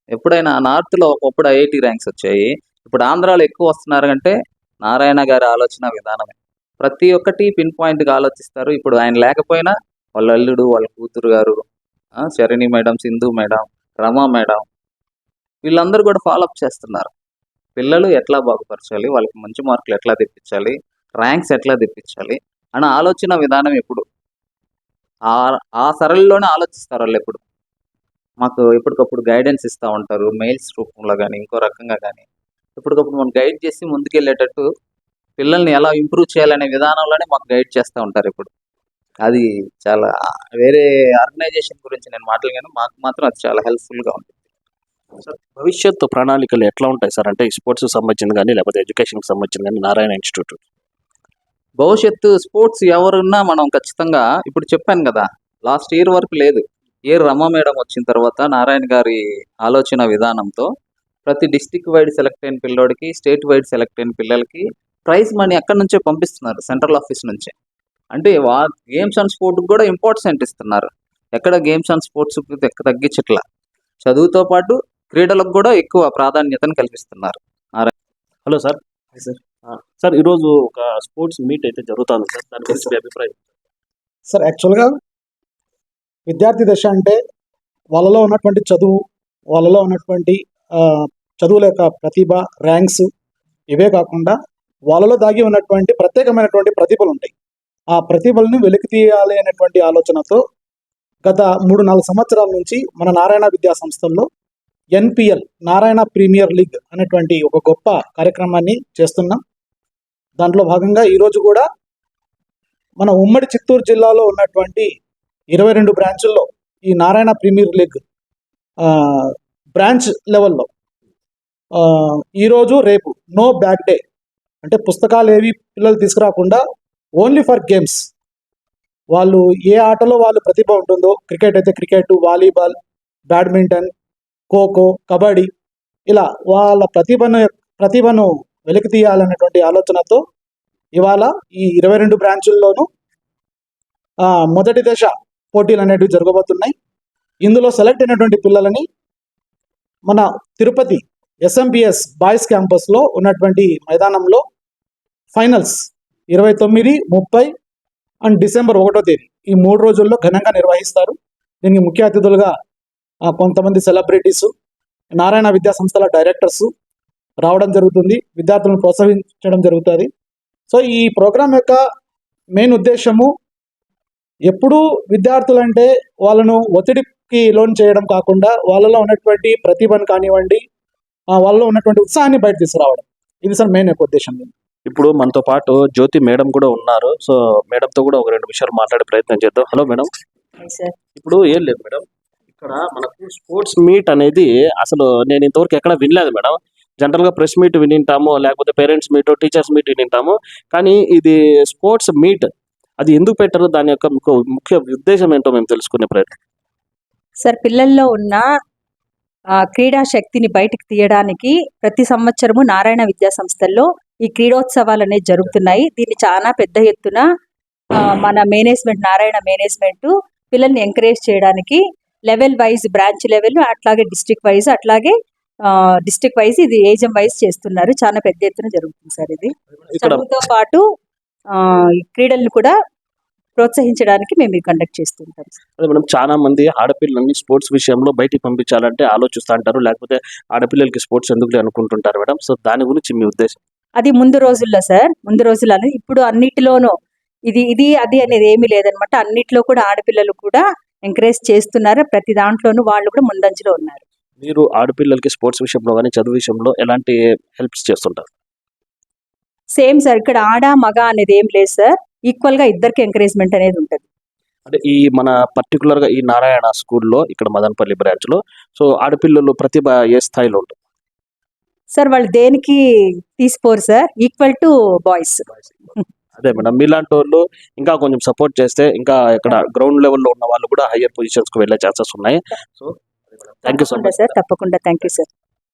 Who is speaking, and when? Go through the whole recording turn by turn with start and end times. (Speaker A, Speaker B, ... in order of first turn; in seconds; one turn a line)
Speaker A: 0.1-11.6
Speaker A: 12.2-14.6
Speaker A: 15.7-17.1
Speaker A: 17.8-24.0
Speaker A: 25.3-27.4
Speaker A: 28.4-32.2
Speaker A: 32.8-34.7
Speaker A: 35.4-38.5
Speaker A: 39.2-44.4
Speaker B: 45.2-50.6
Speaker A: 51.8-60.7
Speaker A: 61.3-67.5
Speaker A: 68.1-73.4
Speaker A: 74.0-77.9
Speaker B: 78.5-78.8
Speaker B: 79.7-83.4
Speaker C: 84.3-84.9
Speaker C: 86.3-87.2
Speaker C: 87.9-89.0
Speaker C: 89.5-93.1
Speaker C: 93.7-94.4
Speaker C: 94.9-97.3
Speaker C: 97.9-100.4
Speaker C: 101.2-104.3
Speaker C: 105.0-109.4
Speaker C: 110.4-111.7
Speaker C: 113.0-114.9
Speaker C: 115.5-118.0
Speaker C: 118.8-120.7
Speaker C: 121.8-124.0
Speaker C: 124.6-126.6
Speaker C: 127.2-128.1
Speaker C: 129.1-132.8
Speaker C: 133.3-133.9
Speaker C: 134.5-135.5
Speaker C: 136.1-140.2
Speaker C: 141.0-142.9
Speaker C: 144.2-146.7
Speaker C: 147.4-148.9
Speaker C: 150.1-154.4
Speaker C: 155.3-157.5
Speaker C: 158.2-162.5
Speaker C: 163.3-164.5
Speaker C: 165.2-166.7
Speaker C: 167.4-170.1
Speaker C: 170.7-171.8
Speaker C: 172.6-173.3
Speaker C: 174.5-180.6
Speaker C: 181.4-184.5
Speaker B: 184.9-190.1
Speaker D: 190.6-191.0
Speaker B: 191.2-192.0
Speaker B: 192.6-202.5
Speaker B: 203.0-206.3
Speaker D: 207.4-208.5
Speaker D: 209.6-217.2
Speaker D: 217.9-230.8
Speaker B: 229.9-230.3
Speaker D: 231.5-232.7
Speaker D: 233.6-235.6
Speaker B: 235.8-243.6
Speaker D: 244.0-246.9
Speaker D: 247.5-254.0
Speaker B: 254.4-258.3
Speaker D: 259.8-264.0
Speaker B: 264.7-270.8
Speaker D: 271.9-276.1
Speaker B: 276.4-282.9
Speaker B: 283.6-284.3
Speaker D: 283.6-285.3